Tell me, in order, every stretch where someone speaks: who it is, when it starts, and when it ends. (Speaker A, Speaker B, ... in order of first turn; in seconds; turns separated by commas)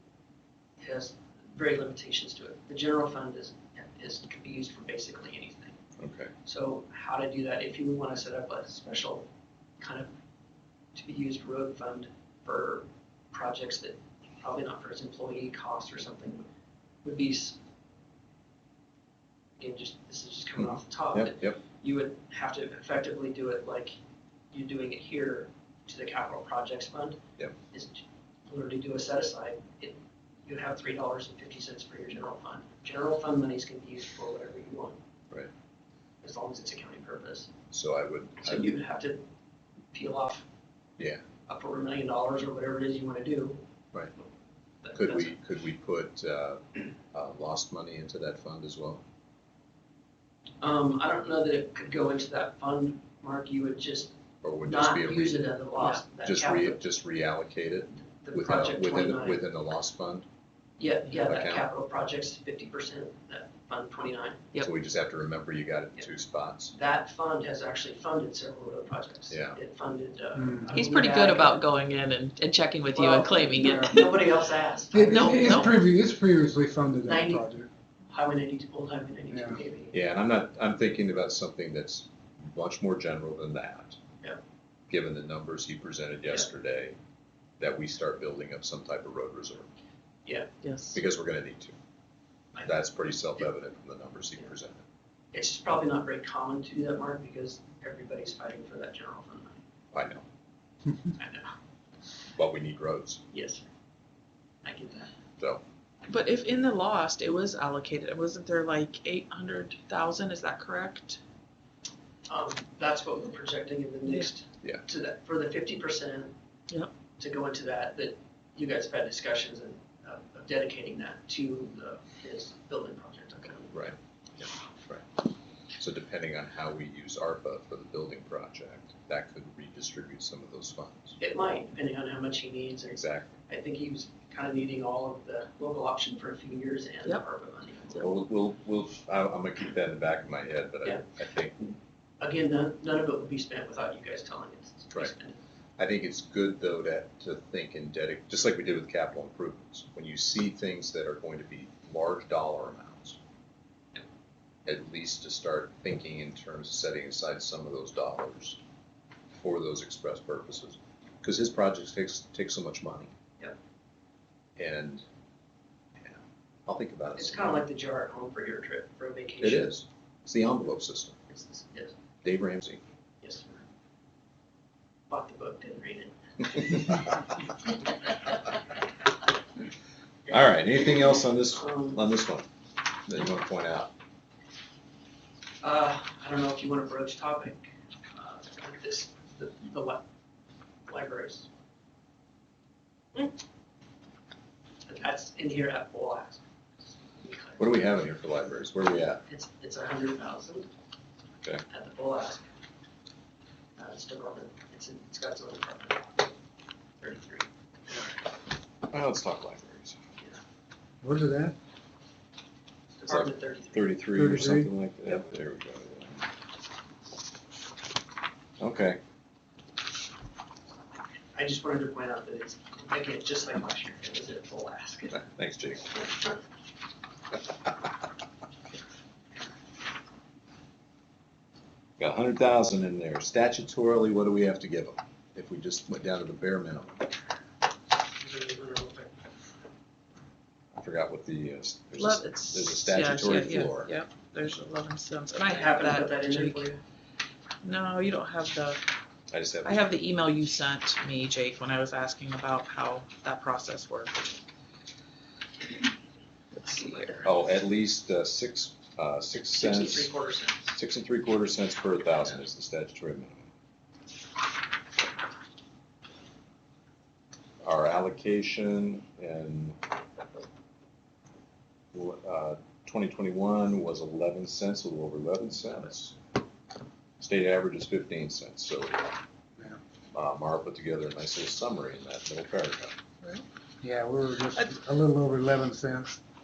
Speaker A: 0.8-5.8, Speaker B: 6.0-6.3, Speaker A: 6.4-9.3, Speaker A: 9.8-10.1, Speaker A: 10.9-16.4, Speaker A: 17.0-17.6, Speaker A: 19.6-23.9, Speaker B: 21.1-21.6, Speaker A: 24.5-27.2, Speaker A: 27.7-35.0, Speaker A: 36.2-37.5, Speaker B: 37.7-38.7, Speaker A: 38.4-39.2, Speaker A: 39.9-40.5, Speaker A: 41.5-43.6, Speaker A: 44.8-45.3, Speaker B: 44.9-49.0, Speaker A: 50.6-56.8, Speaker B: 54.4-60.3, Speaker A: 58.2-59.4, Speaker A: 60.8-64.5, Speaker B: 61.1-61.7, Speaker B: 64.6-66.8, Speaker A: 66.7-71.6, Speaker B: 69.3-69.6, Speaker C: 70.3-70.8, Speaker D: 70.7-74.3, Speaker A: 72.9-75.7, Speaker C: 74.9-77.7, Speaker D: 75.1-75.8, Speaker A: 77.0-77.5, Speaker A: 78.1-79.9, Speaker C: 79.3-79.6, Speaker B: 79.9-84.0, Speaker B: 84.9-87.0, Speaker B: 87.6-89.7, Speaker A: 90.2-90.5, Speaker D: 90.6-91.0, Speaker B: 90.9-91.8, Speaker B: 92.6-94.8, Speaker A: 95.3-99.6, Speaker B: 99.9-100.2, Speaker A: 101.1-101.5, Speaker B: 102.3-103.2, Speaker A: 103.3-103.6, Speaker A: 104.6-105.1, Speaker D: 106.1-111.2, Speaker A: 112.3-116.3, Speaker A: 117.2-123.9, Speaker B: 123.7-125.1, Speaker B: 125.8-131.2, Speaker A: 131.2-138.1, Speaker B: 132.9-133.3, Speaker B: 137.9-141.6, Speaker A: 142.2-145.4, Speaker B: 145.8-153.2, Speaker B: 154.6-158.6, Speaker B: 159.3-163.1, Speaker B: 164.6-165.0, Speaker B: 166.0-167.6, Speaker A: 167.2-169.7, Speaker B: 169.4-171.2, Speaker A: 171.3-171.9, Speaker B: 172.2-172.8, Speaker A: 173.2-173.6, Speaker A: 175.1-177.1, Speaker B: 180.3-182.5, Speaker A: 181.6-182.0, Speaker B: 183.1-183.9, Speaker A: 185.6-190.0, Speaker A: 190.9-191.5, Speaker A: 194.9-196.4, Speaker A: 197.0-197.6, Speaker B: 197.6-199.2, Speaker A: 199.3-200.7, Speaker A: 201.7-202.5, Speaker A: 203.8-206.3, Speaker A: 207.0-207.5, Speaker B: 208.9-210.0, Speaker C: 211.0-211.6, Speaker A: 212.9-214.0, Speaker B: 213.1-216.3, Speaker C: 214.1-214.7, Speaker B: 218.6-219.0, Speaker A: 221.3-225.2, Speaker B: 225.1-226.1, Speaker B: 232.0-237.1, Speaker A: 238.2-239.2, Speaker B: 240.8-243.9, Speaker D: 242.0-246.7, Speaker A: 245.3-246.8, Speaker D: 247.6-248.8, Speaker B: 249.3-249.9, Speaker D: 249.6-254.4, Speaker D: 256.6-257.2, Speaker A: 256.7-257.2, Speaker B: 257.2-260.1, Speaker A: 259.6-260.8, Speaker B: 260.7-263.5, Speaker B: 267.6-269.8, Speaker B: 271.9-276.2, Speaker B: 277.2-279.1, Speaker B: 280.1-282.9, Speaker C: 283.8-286.2